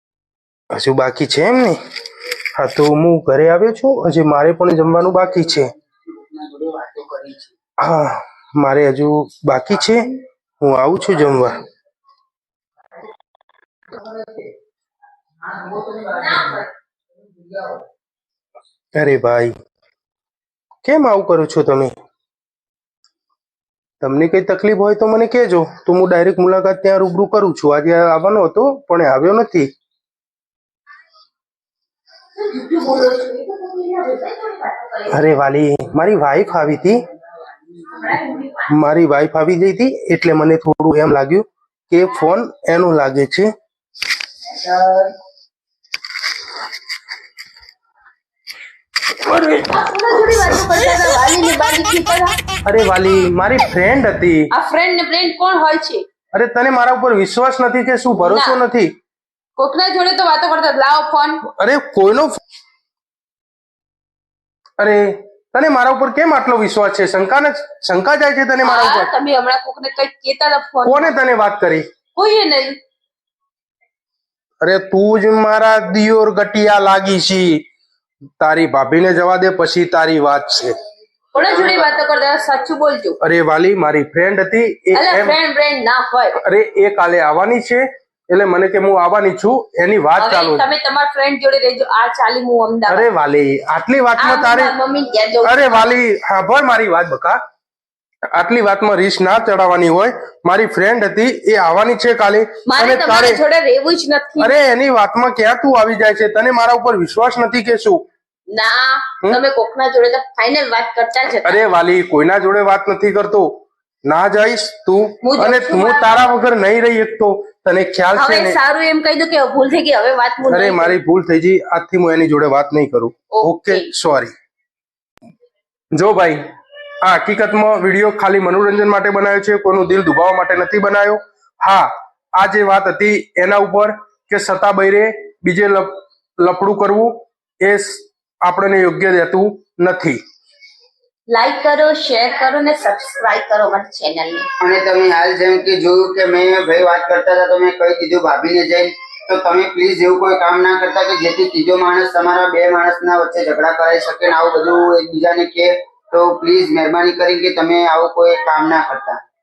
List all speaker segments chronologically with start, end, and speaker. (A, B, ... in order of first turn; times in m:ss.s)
0:00.7-0:01.8 A
0:02.6-0:05.7 A
0:06.1-0:07.5 B
0:07.8-0:11.6 A
0:15.5-0:16.5 B
0:19.0-0:19.5 A
0:20.8-0:21.9 A
0:24.0-0:29.7 A
0:32.4-0:35.1 C
0:35.1-0:37.0 A
0:37.9-0:38.7 C
0:38.7-0:43.5 A
0:44.6-0:45.1 C
0:49.5-0:52.3 C
0:52.7-0:54.5 A
0:54.5-0:56.0 C
0:56.3-0:58.9 A
0:58.1-0:58.6 C
0:59.6-1:01.4 C
1:01.5-1:02.4 A
1:04.8-1:09.1 A
1:08.6-1:11.1 C
1:10.8-1:11.8 A
1:12.2-1:12.8 C
1:14.6-1:17.6 A
1:18.4-1:20.8 A
1:21.3-1:23.2 C
1:21.4-1:21.9 A
1:23.2-1:25.4 A
1:24.9-1:26.4 C
1:26.4-1:30.7 A
1:30.2-1:33.1 C
1:32.9-1:34.7 A
1:34.2-1:35.9 C
1:35.4-1:37.4 A
1:38.3-1:43.4 A
1:42.7-1:44.5 C
1:44.4-1:48.0 A
1:48.5-1:51.6 C
1:51.4-1:53.5 A
1:54.0-1:58.6 A
1:55.2-1:56.4 C
1:58.1-2:01.0 C
2:00.4-2:04.3 A
2:03.3-2:03.9 C
2:05.9-2:06.4 A
2:07.0-2:20.2 A
2:21.3-2:24.5 C
2:24.6-2:39.2 B